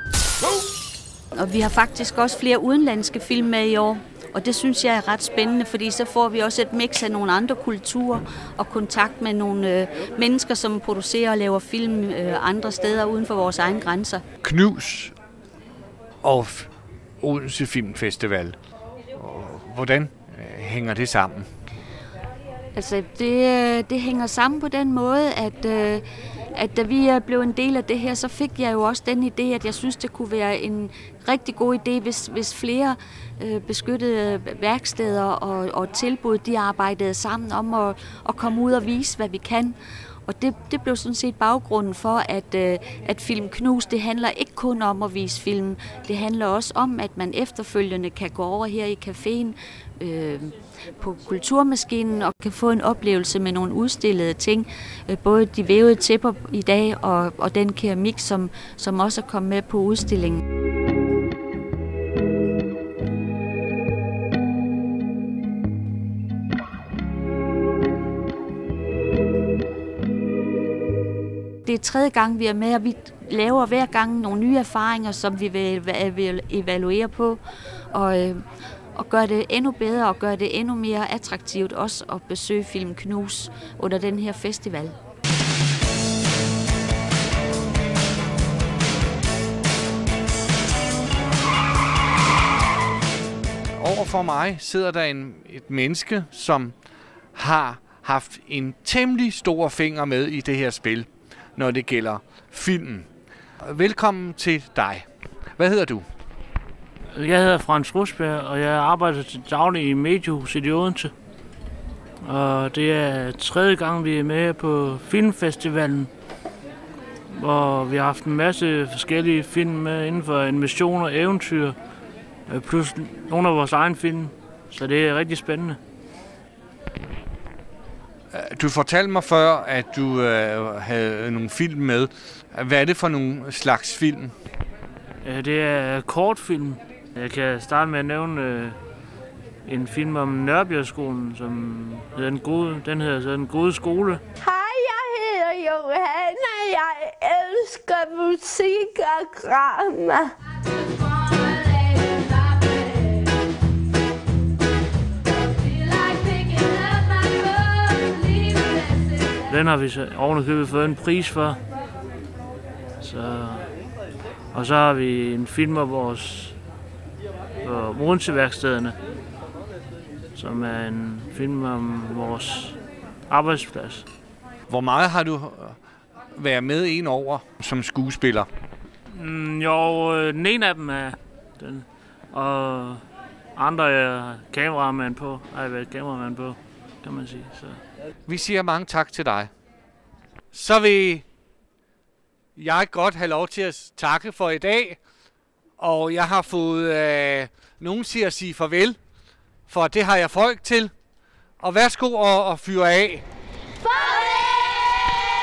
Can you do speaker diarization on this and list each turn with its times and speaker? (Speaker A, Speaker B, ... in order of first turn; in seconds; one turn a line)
Speaker A: 1.3-14.2
Speaker B: 14.4-15.1
Speaker B: 16.2-16.7
Speaker B: 17.2-18.6
Speaker B: 19.1-21.5
Speaker A: 22.7-60.4
Speaker A: 71.6-78.4
Speaker A: 78.9-85.0
Speaker B: 93.8-96.7
Speaker B: 97.3-103.1
Speaker B: 103.6-106.0
Speaker C: 107.1-111.1
Speaker C: 112.2-116.1
Speaker C: 117.3-121.8
Speaker C: 122.5-125.8
Speaker B: 128.3-134.3
Speaker C: 135.2-138.8
Speaker C: 139.6-144.2
Speaker D: 144.4-150.3
Speaker D: 151.0-153.2
Speaker D: 155.6-159.0
Speaker C: 159.4-161.6
Speaker C: 163.0-163.7
Speaker C: 164.5-166.6
Speaker C: 167.6-169.0
Speaker C: 170.3-172.8
Speaker C: 173.3-174.0
Speaker B: 174.7-175.8
Speaker B: 176.3-178.5
Speaker C: 179.1-183.0
Speaker C: 183.6-187.8
Speaker B: 188.3-189.5
Speaker B: 190.5-191.2
Speaker B: 192.6-195.0
Speaker B: 195.8-199.0
Speaker B: 199.7-200.9
Speaker B: 201.6-203.2
Speaker D: 203.8-205.2